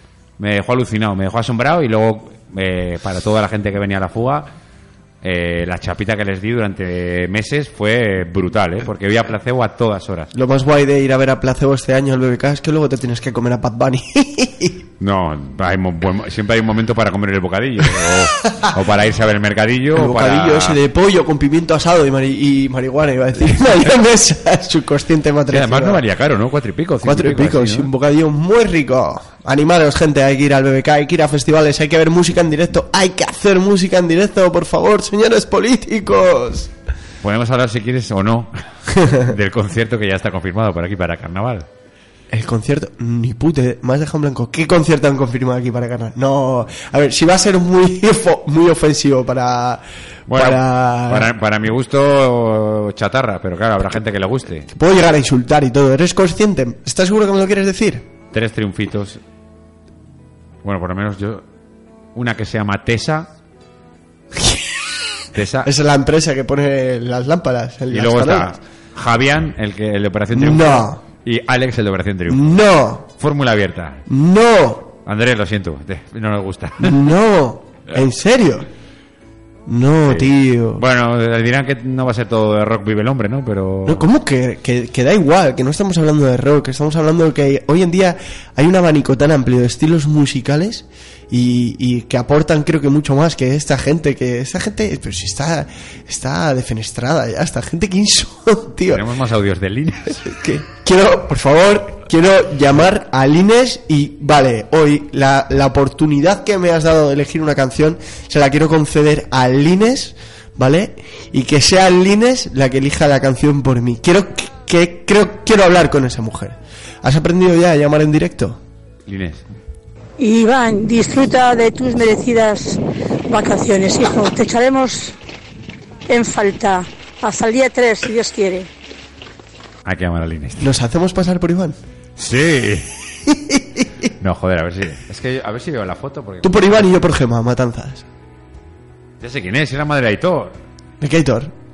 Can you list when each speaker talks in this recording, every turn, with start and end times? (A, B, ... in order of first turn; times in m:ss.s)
0:00.4-0:04.5 A
0:05.2-0:10.3 A
0:10.3-0:14.8 B
0:15.0-0:20.8 A
0:20.0-0:26.0 B
0:23.6-0:23.9 A
0:25.5-0:27.9 A
0:27.0-0:36.7 B
0:37.2-0:41.7 A
0:39.0-0:39.2 B
0:42.3-0:51.3 B
0:50.3-0:54.7 A
0:54.8-0:58.1 B
0:58.3-0:59.2 A
1:00.6-1:01.4 A
1:02.2-1:03.3 A
1:04.4-1:04.7 B
1:05.3-1:05.7 A
1:05.6-1:08.6 B
1:07.9-1:12.7 A
1:10.3-1:11.0 B
1:12.3-1:13.0 B
1:13.2-1:14.0 A
1:14.1-1:15.0 B
1:15.1-1:17.0 A
1:16.8-1:18.7 B
1:19.7-1:20.8 B
1:20.1-1:24.1 A
1:23.9-1:39.1 B
1:38.9-1:40.3 A
1:40.2-1:58.6 B
1:59.1-1:59.4 A
2:00.2-2:05.2 C
2:06.1-2:08.7 C
2:09.8-2:10.7 A
2:10.6-2:11.8 B
2:12.2-2:12.9 A
2:13.3-2:13.9 B
2:14.2-2:16.9 A
2:16.4-2:18.1 B
2:19.2-2:20.5 A
2:21.0-2:21.5 B